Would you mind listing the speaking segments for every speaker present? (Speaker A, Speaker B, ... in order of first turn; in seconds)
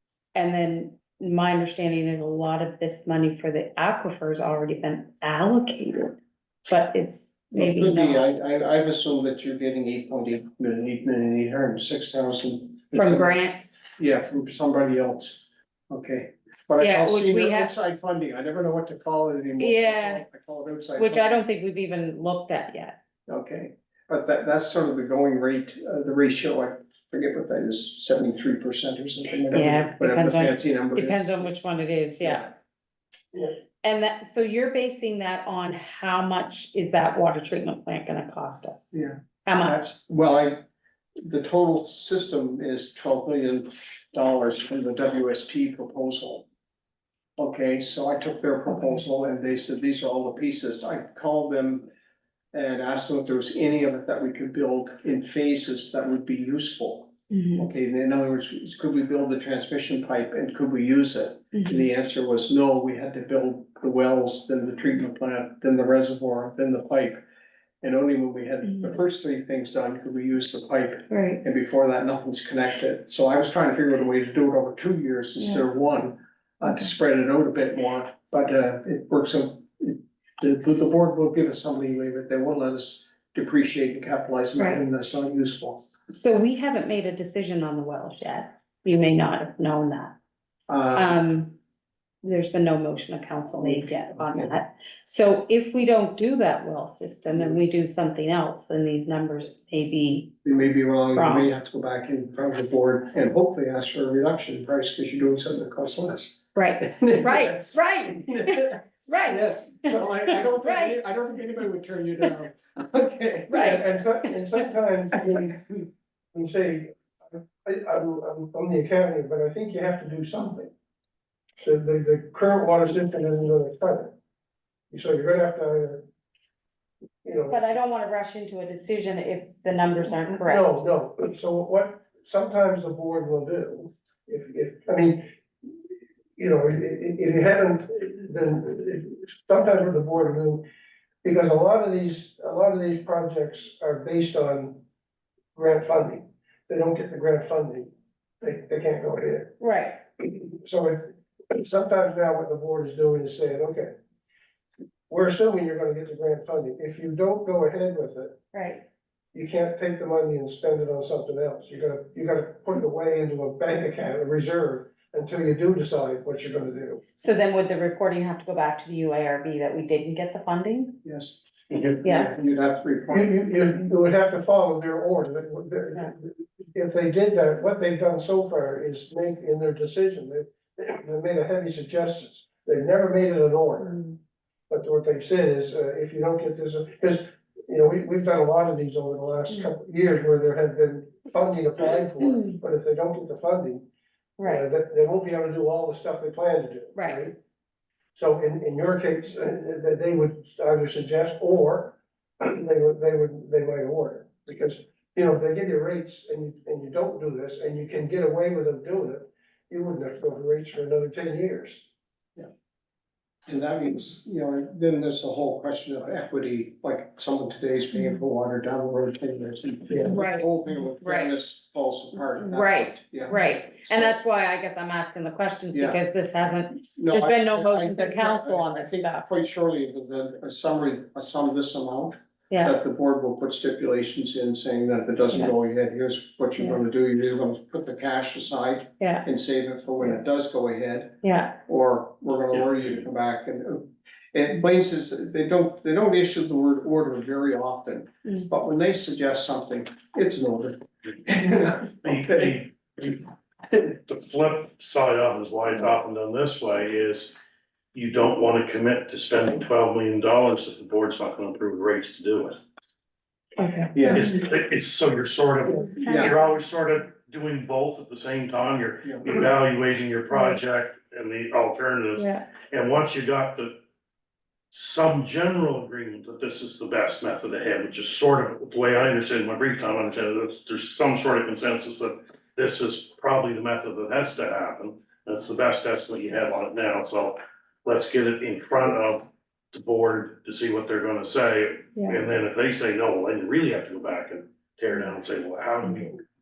Speaker A: 0.3-6.2, 6.7-8.3, 12.9-13.7, 16.8-17.7, 19.6-20.2, 21.0-22.9, 29.5-32.5, 33.8-38.9, 39.4-39.8, 57.3-57.7, 61.5-61.9, 68.6-68.9, 71.1-71.4, 75.4-75.6, 76.6-76.9, 84.6-84.8, 86.1-90.1, 90.9-91.6, 92.2-100.3, 101.1-101.5, 106.5-111.0, 113.5-113.9, 127.5-130.7, 149.6-150.0, 158.5-158.8, 167.2-171.0, 172.0-172.3, 183.8-184.2, 192.2-192.6, 194.4-194.7, 196.9-197.2, 220.0-221.3, 222.3-229.2, 232.5-232.7, 239.0-239.2, 241.2-241.6, 263.6-264.4, 265.8-266.4, 270.3-270.6, 272.1-272.4
Speaker B: 7.5-13.3, 14.0-21.4, 23.3-31.3, 32.2-32.5, 38.9-40.6, 41.2-46.5, 47.4-51.9, 52.5-67.2, 67.8-85.8, 90.7-91.1, 93.6-94.5, 100.4-113.8, 171.0-171.4, 172.0-173.4, 213.5-224.2, 225.7-226.0, 226.9-252.6, 263.9-264.3, 266.0-266.3, 269.0-269.3
Speaker C: 113.6-115.8, 116.3-120.7, 121.6-124.1, 124.9-126.0, 127.2-127.6, 130.3-135.2, 136.4-140.6, 141.2-144.8, 145.5-147.9, 148.4-149.6, 150.2-153.9, 155.1-158.4, 159.3-167.0, 173.1-183.9, 184.7-193.8, 194.4-197.3, 198.2-211.8, 219.9-220.2
Speaker D: 171.7-172.0, 252.0-253.2, 254.1-257.4, 257.9-262.6, 264.1-273.7, 274.7-296.2